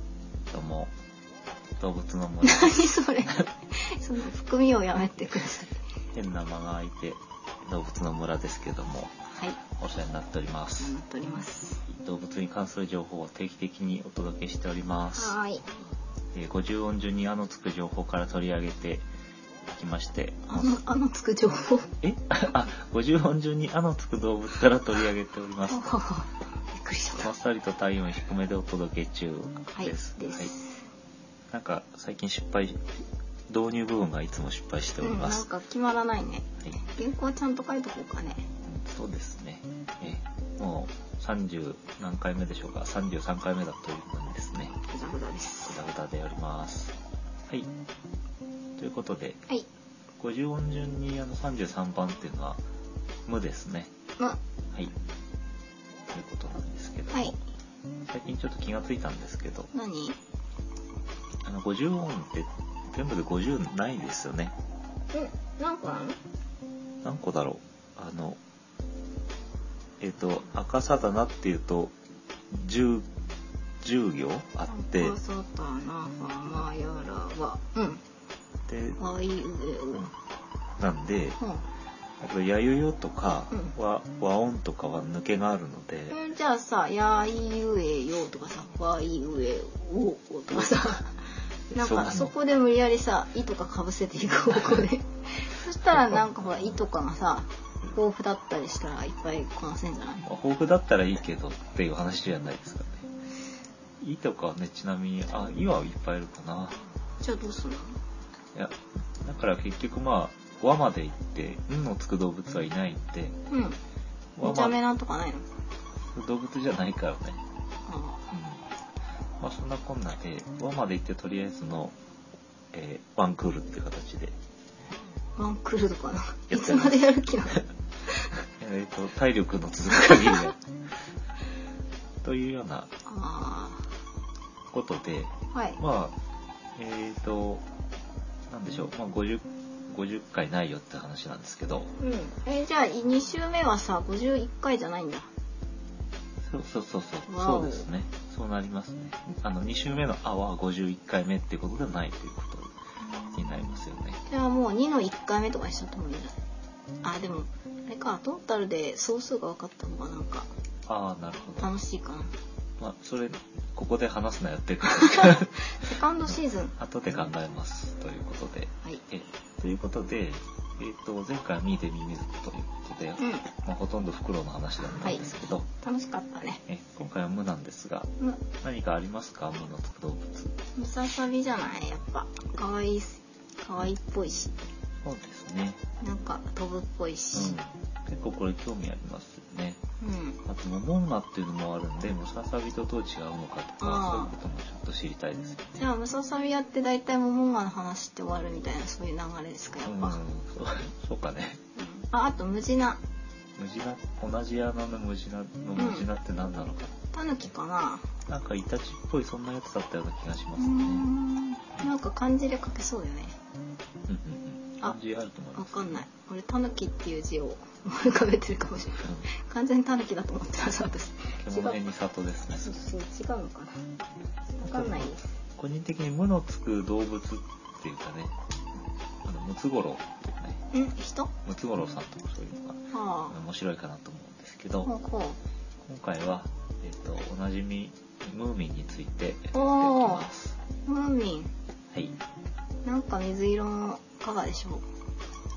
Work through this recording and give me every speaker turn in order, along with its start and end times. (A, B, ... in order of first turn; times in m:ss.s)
0:00.5-0:00.9 A
0:01.8-0:02.8 A
0:02.4-0:05.8 B
0:06.1-0:11.0 A
0:10.8-0:11.8 B
0:11.9-0:15.4 A
0:15.2-0:15.7 B
0:16.3-0:19.1 A
0:19.6-0:20.8 A
0:20.5-0:21.9 B
0:22.0-0:25.9 A
0:25.7-0:27.3 B
0:27.2-0:30.5 A
0:29.7-0:30.8 B
0:31.5-0:35.4 A
0:35.0-0:38.5 B
0:38.6-0:44.8 A
0:44.8-0:45.8 B
0:45.7-0:47.0 A
0:48.8-0:49.4 A
0:50.2-0:52.6 A
0:53.3-0:53.9 A
0:56.1-0:57.4 A
0:57.1-0:57.4 B
0:58.1-0:59.7 A
0:59.7-1:00.2 B
1:01.4-1:04.6 A
1:05.1-1:06.2 B
1:07.0-1:08.4 A
1:10.0-1:12.0 A
1:12.5-1:13.1 A
1:13.8-1:15.2 A
1:14.7-1:18.0 B
1:18.7-1:19.0 A
1:19.0-1:20.1 B
1:20.8-1:21.4 A
1:22.2-1:26.2 A
1:26.1-1:40.2 B
1:31.7-1:32.3 A
1:35.9-1:36.5 A
1:40.2-1:43.1 A
1:44.0-1:46.8 A
1:47.2-1:48.0 B
1:48.5-1:53.4 A
1:53.5-1:53.8 B
1:54.4-1:54.8 A
1:54.4-1:55.5 B
1:56.0-1:57.4 A
1:57.9-1:58.3 B
1:58.3-1:58.6 A
1:59.4-2:02.0 A
2:02.7-2:04.4 A
2:05.4-2:07.6 B
2:06.5-2:07.1 A
2:08.6-2:10.6 A
2:12.2-2:12.9 A
2:13.1-2:13.9 B
2:14.7-2:16.2 A
2:15.5-2:15.8 B
2:16.8-2:17.6 A
2:18.5-2:21.9 A
2:22.0-2:25.3 B
2:26.4-2:32.8 A
2:27.3-2:27.9 B
2:33.2-2:33.7 B
2:33.3-2:34.2 A
2:34.3-2:36.4 B
2:37.0-2:40.5 B
2:40.9-2:41.7 A
2:41.6-2:42.4 B
2:42.8-2:45.6 A
2:45.0-2:46.8 B
2:46.3-2:55.7 A
2:53.2-2:53.5 B
2:55.0-2:56.6 B
2:56.7-3:00.6 A
3:00.8-3:04.6 B
3:05.0-3:05.8 A
3:06.0-3:07.6 B
3:07.4-3:09.8 A
3:10.0-3:10.4 B
3:10.5-3:15.9 A
3:13.8-3:14.3 B
3:15.8-3:20.2 B
3:19.8-3:21.6 A
3:21.8-3:23.0 B
3:23.6-3:27.0 A
3:25.8-3:26.1 B
3:27.1-3:28.1 B
3:28.3-3:31.1 A
3:30.6-3:33.4 B
3:34.1-3:36.0 A
3:35.6-3:41.8 B
3:39.0-3:39.3 A
3:41.4-3:42.8 A
3:42.6-3:43.8 B
3:44.6-3:45.3 B
3:44.6-3:48.4 A
3:49.2-3:50.6 A
3:50.7-3:51.3 B
3:51.4-3:54.9 A
3:52.9-3:53.4 B
3:54.8-3:55.4 B
3:55.8-4:00.6 A
3:59.5-4:00.3 B
4:00.8-4:01.5 B
4:01.9-4:02.2 A
4:02.8-4:04.8 B